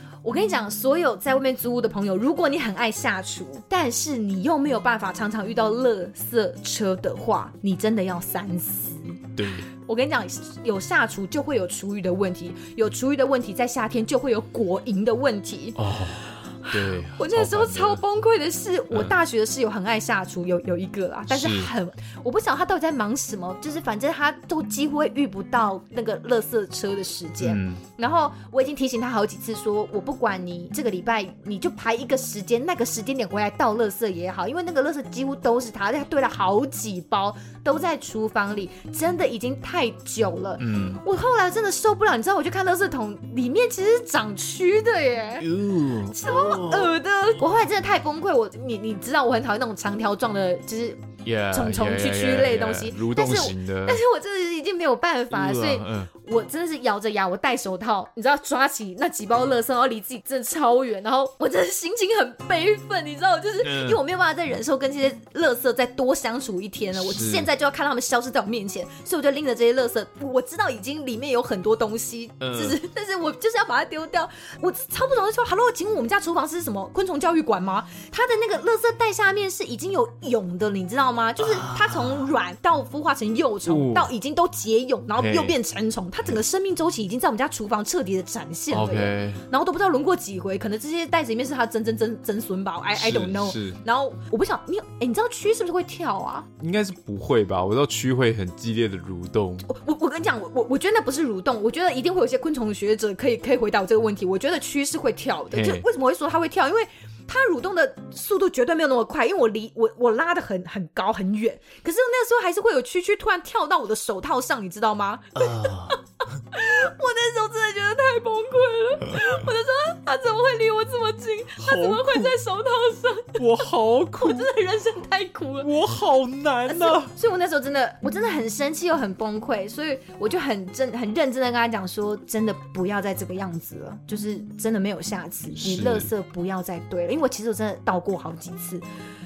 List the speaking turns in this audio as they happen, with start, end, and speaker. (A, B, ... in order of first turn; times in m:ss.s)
0:00.2-0:15.8 A
0:09.4-0:09.7 B
0:15.8-0:18.0 B
0:16.6-0:45.5 A
0:21.3-0:21.7 B
0:27.4-0:27.8 B
0:40.6-0:41.0 B
0:45.4-0:46.9 B
0:46.0-1:36.5 A
0:51.2-0:54.0 B
0:55.3-0:56.1 B
1:03.6-1:04.0 B
1:06.9-1:07.5 B
1:12.4-1:12.8 B
1:21.4-1:22.3 B
1:23.6-1:24.1 B
1:25.2-1:25.6 B
1:28.7-1:29.4 B
1:32.9-1:33.8 B
1:36.6-1:39.7 B
1:39.6-2:05.7 A
1:45.5-1:45.8 B
1:55.4-1:56.0 B
2:01.6-2:02.3 B
2:03.4-2:04.5 B
2:05.6-2:07.1 B
2:06.6-2:18.8 A
2:15.6-2:16.1 B